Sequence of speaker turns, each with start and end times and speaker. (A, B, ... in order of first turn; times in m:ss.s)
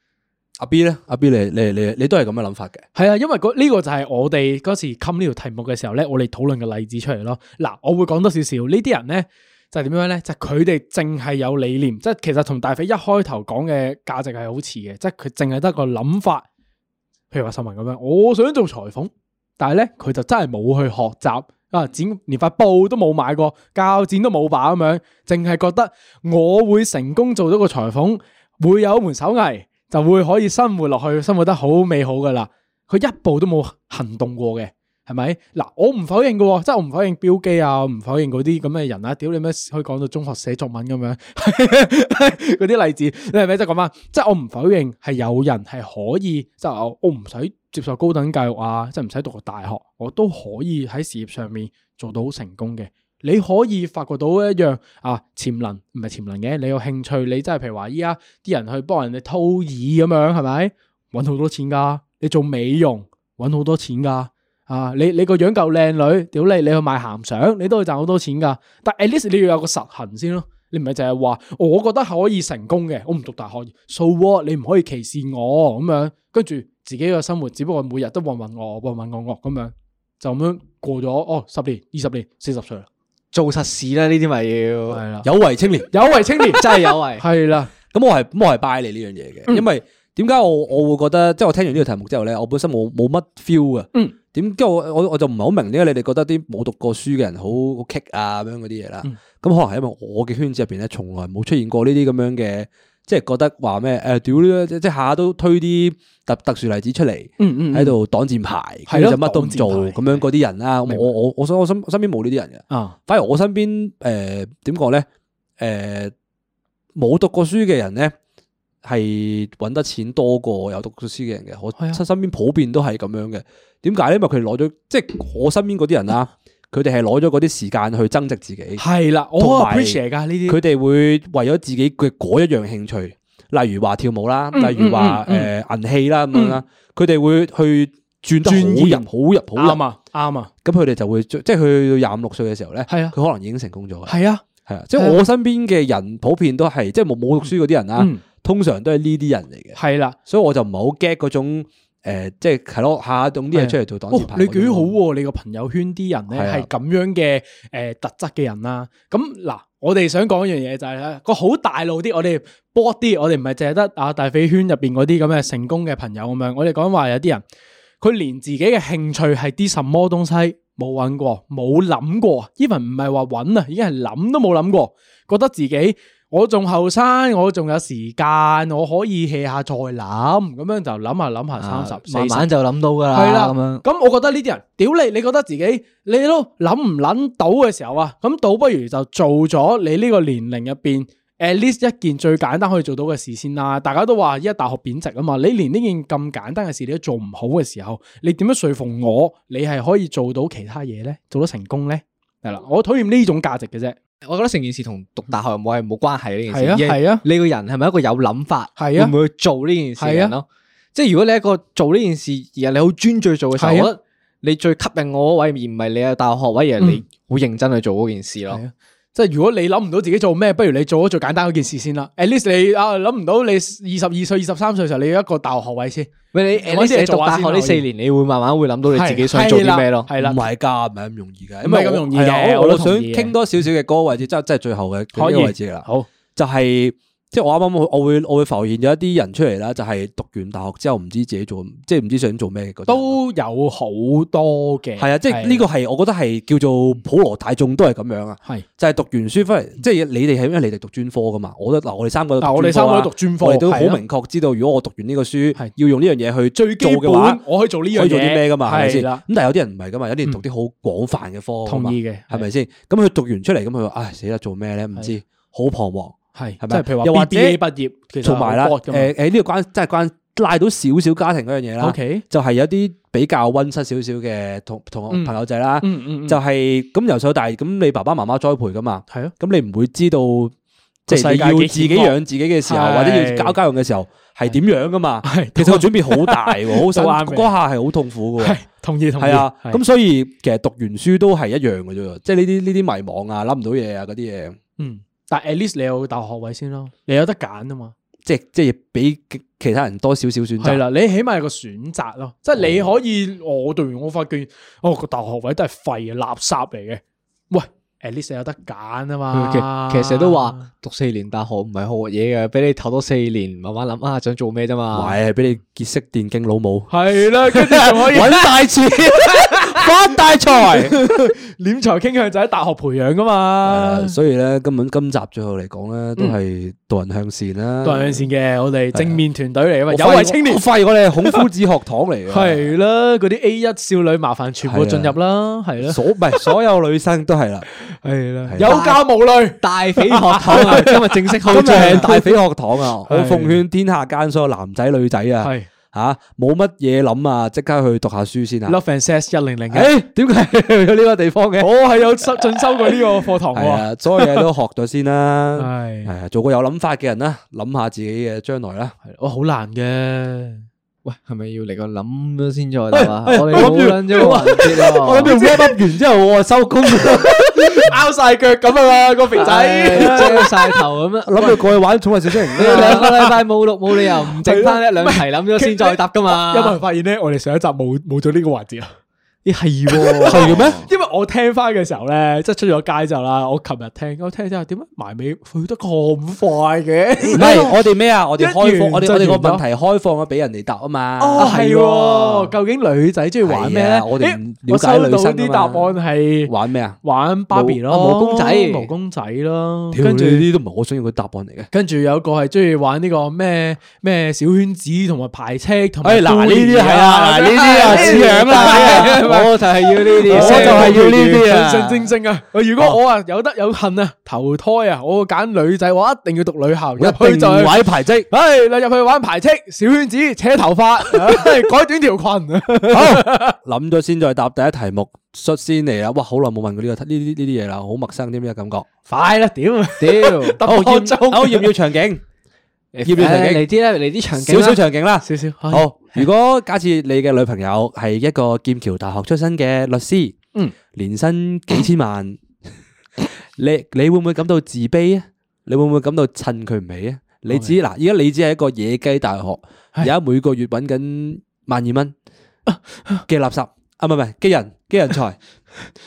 0:00.6-0:02.8 A
0:03.0-0:16.5 B
0:17.3-1:22.9 B
1:23.3-1:25.0 C
1:24.9-1:25.3 B
1:25.2-1:25.9 A
1:25.9-1:27.7 B
1:26.5-1:27.2 C
1:27.9-1:55.1 A
1:47.4-1:48.0 B
1:48.9-1:50.2 B
1:52.7-1:53.0 B
1:55.6-1:56.1 A
1:57.0-1:58.1 A
1:58.8-2:08.8 A
2:08.8-2:10.6 B
2:09.4-2:19.8 A
2:14.5-2:15.5 B
2:16.3-2:16.6 B
2:18.4-2:20.5 B
2:20.6-2:34.9 A
2:22.9-2:23.2 B
2:24.1-2:24.4 B
2:25.0-2:25.2 B
2:28.0-2:28.2 B
2:29.8-2:30.2 B
2:33.5-2:47.4 B
2:36.3-2:36.7 A
2:48.0-3:02.5 B
3:01.6-3:03.8 C
3:03.1-3:24.0 B
3:24.2-3:38.6 C
3:26.5-3:27.2 B
3:28.8-3:29.1 B
3:30.0-3:30.3 B
3:33.6-3:33.9 B
3:38.5-3:47.8 B
3:46.3-3:50.1 C
3:48.9-3:50.4 B
3:50.2-4:03.2 A
3:51.6-3:53.4 B
3:55.2-3:56.1 B
4:02.9-4:05.6 B
4:05.0-4:17.4 A
4:12.4-4:14.0 B
4:16.5-4:19.2 B
4:17.9-4:27.6 A
4:21.7-4:22.5 B
4:26.4-4:29.1 B
4:28.2-4:40.5 A
4:31.8-4:32.2 B
4:35.1-4:36.4 B
4:41.1-4:48.6 A
4:41.1-4:43.6 B
4:45.2-4:47.5 B
4:48.4-4:49.8 B
4:49.2-4:54.6 A
4:54.8-4:57.9 B
4:58.3-5:00.8 A
5:00.6-5:10.7 B
5:02.6-5:02.9 A
5:09.3-5:15.2 C
5:14.9-5:21.0 A
5:16.9-5:18.5 B
5:19.2-5:24.2 B
5:23.6-5:28.3 A
5:27.8-5:30.6 B
5:28.9-5:29.2 A
5:29.9-5:32.7 A
5:32.3-5:36.5 B
5:34.7-5:35.2 A
5:35.8-5:37.7 A
5:38.0-5:42.2 B
5:38.5-5:38.8 A
5:38.6-5:39.0 C
5:39.6-5:42.3 C
5:40.5-5:48.8 A
5:43.1-5:43.6 B
5:45.4-5:45.7 B
5:48.7-5:49.9 B
5:49.7-5:51.7 A
5:51.6-5:54.5 B
5:52.2-5:59.0 A
5:55.6-5:56.1 B
5:59.0-6:00.7 B
6:01.0-6:05.4 C
6:02.9-6:07.9 A
6:03.4-6:05.8 B
6:07.0-6:10.8 B
6:09.4-6:11.6 C
6:09.9-6:10.5 A
6:11.3-6:13.2 A
6:12.5-6:13.4 B
6:12.6-6:16.8 C
6:14.0-6:18.9 B
6:19.4-6:20.9 C
6:19.9-6:27.8 B
6:20.3-6:20.8 A
6:27.3-6:27.7 C
6:27.3-6:31.6 A
6:28.4-6:29.6 B
6:31.2-6:32.5 C
6:31.3-6:40.5 B
6:33.4-6:37.0 A
6:37.5-6:38.9 C
6:39.9-6:41.7 A
6:41.7-7:03.6 B
6:46.0-6:51.9 A
6:47.5-6:51.6 C
6:57.0-6:58.3 A
7:02.9-7:08.9 A
7:09.1-7:11.7 B
7:10.0-7:10.6 C
7:10.7-7:12.2 A
7:12.9-7:14.8 C
7:13.0-7:13.6 A
7:14.4-7:20.4 A
7:15.3-7:15.9 B
7:20.9-7:22.4 A
7:23.4-7:32.1 A
7:27.5-7:27.8 B
7:32.7-7:33.2 B
7:33.3-7:35.4 A